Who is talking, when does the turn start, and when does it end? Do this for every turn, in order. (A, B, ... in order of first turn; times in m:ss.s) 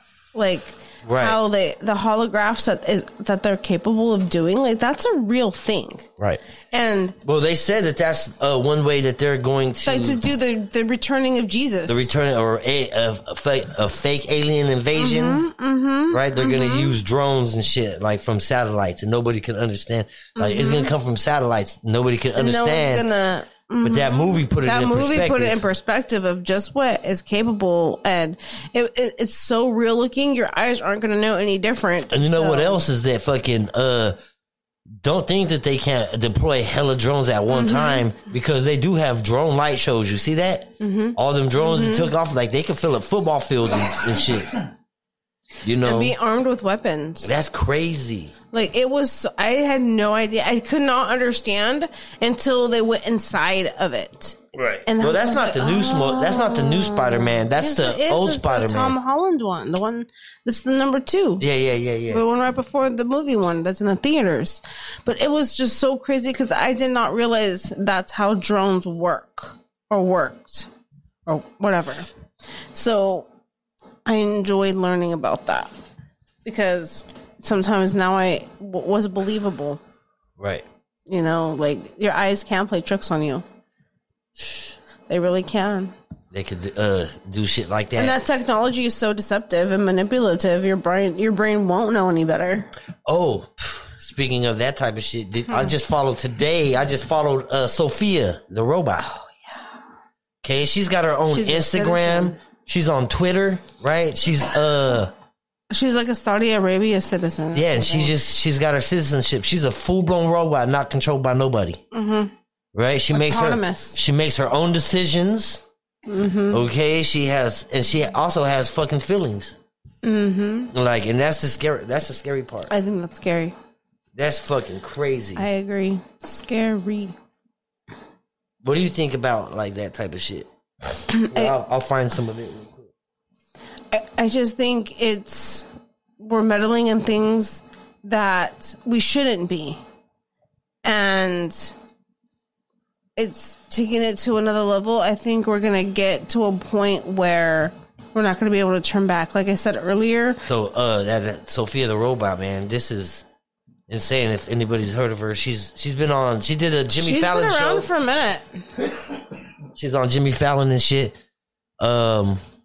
0:00.3-0:06.1 A
0:01.0-0:01.4 B
0:06.7-0:07.2 A
0:07.2-0:10.2 B
0:09.8-0:12.1 A
0:11.9-0:15.4 B
0:14.9-0:17.0 A
0:16.1-0:23.0 B
0:20.4-0:20.9 A
0:22.4-0:32.8 A
0:23.8-0:25.6 B
0:32.1-0:34.2 B
0:34.9-0:44.6 B
0:37.5-0:38.1 A
0:40.8-0:42.1 A
0:45.6-0:46.2 B
0:45.8-0:47.3 A
0:47.2-0:48.3 B
0:48.5-1:01.4 A
0:54.5-0:59.0 B
1:01.4-1:02.2 B
1:02.1-1:10.7 A
1:11.3-1:12.1 A
1:12.7-1:13.3 A
1:14.0-1:15.7 A
1:16.4-1:19.8 A
1:20.4-1:20.6 B
1:21.1-1:23.4 A
1:24.4-1:24.7 B
1:25.1-1:25.9 A
1:26.3-1:28.2 B
1:28.0-1:32.7 A
1:33.0-1:39.1 B
1:35.5-1:35.8 A
1:39.0-1:39.6 A
1:40.4-1:45.1 B
1:41.3-1:42.4 A
1:45.7-1:48.1 A
1:47.5-1:51.8 B
1:51.9-1:52.3 A
1:52.7-1:55.6 B
1:53.1-1:54.0 A
1:56.1-1:56.6 A
1:56.5-1:59.6 B
2:00.0-2:00.7 A
2:00.7-2:02.7 B
2:02.7-2:03.5 A
2:04.1-2:05.4 B
2:05.4-2:07.1 A
2:08.6-2:10.5 B
2:11.1-2:11.6 A
2:11.1-2:12.9 B
2:13.9-2:15.7 A
2:16.2-2:19.8 A
2:20.8-2:21.8 A
2:23.2-2:30.4 A
2:30.5-2:33.2 B
2:33.9-2:37.9 B
2:36.9-2:38.6 A
2:39.7-2:41.1 B
2:41.8-2:42.4 B